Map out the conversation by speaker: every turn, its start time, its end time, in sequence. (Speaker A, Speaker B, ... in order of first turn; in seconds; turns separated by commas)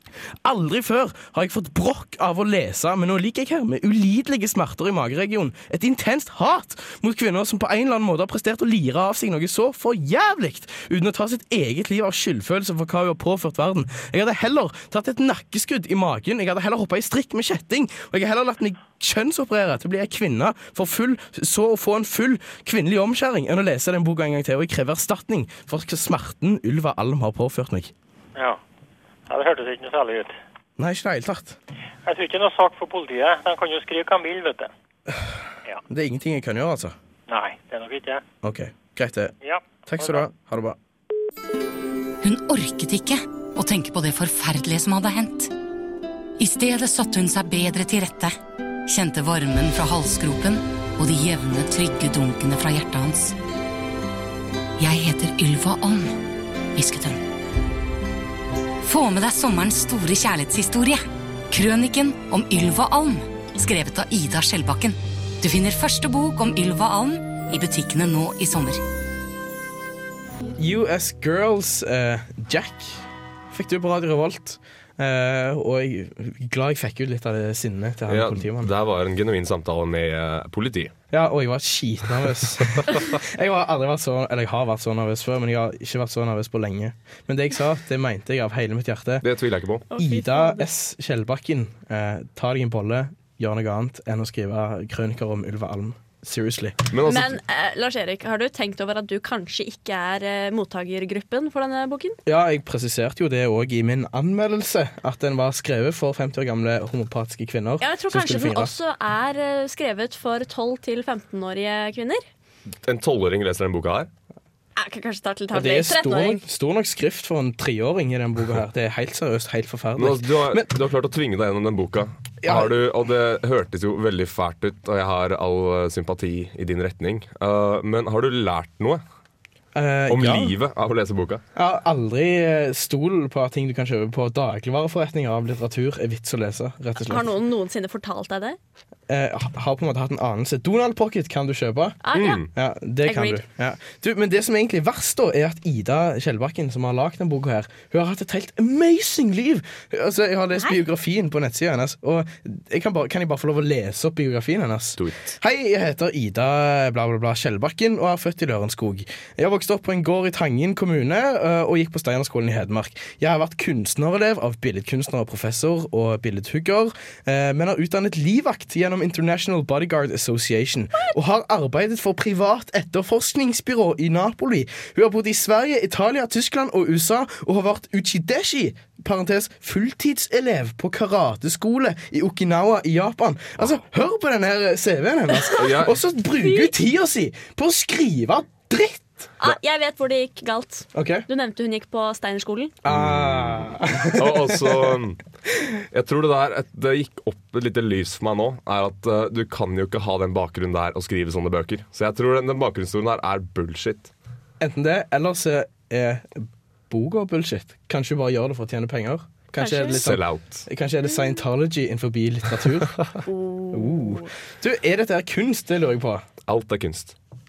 Speaker A: 0.4-27.9, Speaker B: 29.3-30.4, Speaker A: 30.8-31.6, Speaker B: 32.0-34.7, Speaker A: 35.9-37.0, Speaker B: 37.3-38.2, Speaker A: 38.4-39.4, Speaker B: 39.4-40.3, Speaker A: 39.9-40.8, Speaker C: 42.2-45.5, Speaker C: 46.4-48.4, Speaker C: 48.9-53.4, Speaker C: 54.8-56.2, Speaker C: 56.8-57.2, Speaker C: 58.8-68.8, Speaker A: 70.6-78.7, Speaker D: 78.1-80.9, Speaker A: 81.1-89.2, Speaker D: 89.2-89.9, Speaker E: 89.9-90.7, Speaker A: 90.0-96.8, Speaker D: 96.9-97.4, Speaker E: 97.0-102.2, Speaker A: 102.2-108.7, Speaker E: 107.8-112.2, Speaker D: 112.8-114.1, Speaker E: 114.8-116.4, Speaker A: 115.5-120.7, Speaker D: 120.0-129.0, Speaker A: 122.4-122.8, Speaker A: 129.7-130.6, Speaker D: 130.1-131.4, Speaker A: 131.6-137.3, Speaker E: 137.0-138.6, Speaker A: 139.1-142.0, Speaker E: 142.0-142.5, Speaker D: 142.1-142.5, Speaker A: 142.5-189.3, Speaker E: 143.0-143.4, Speaker D: 155.0-155.4, Speaker D: 185.5-186.0, Speaker E: 186.4-186.7, Speaker E: 189.4-192.8, Speaker A: 190.9-191.2, Speaker A: 192.8-195.0, Speaker D: 192.9-195.2, Speaker D: 195.9-204.1, Speaker A: 204.6-213.0, Speaker E: 209.6-210.0, Speaker D: 209.9-210.7, Speaker E: 213.2-214.3, Speaker A: 213.7-216.2, Speaker D: 216.5-217.1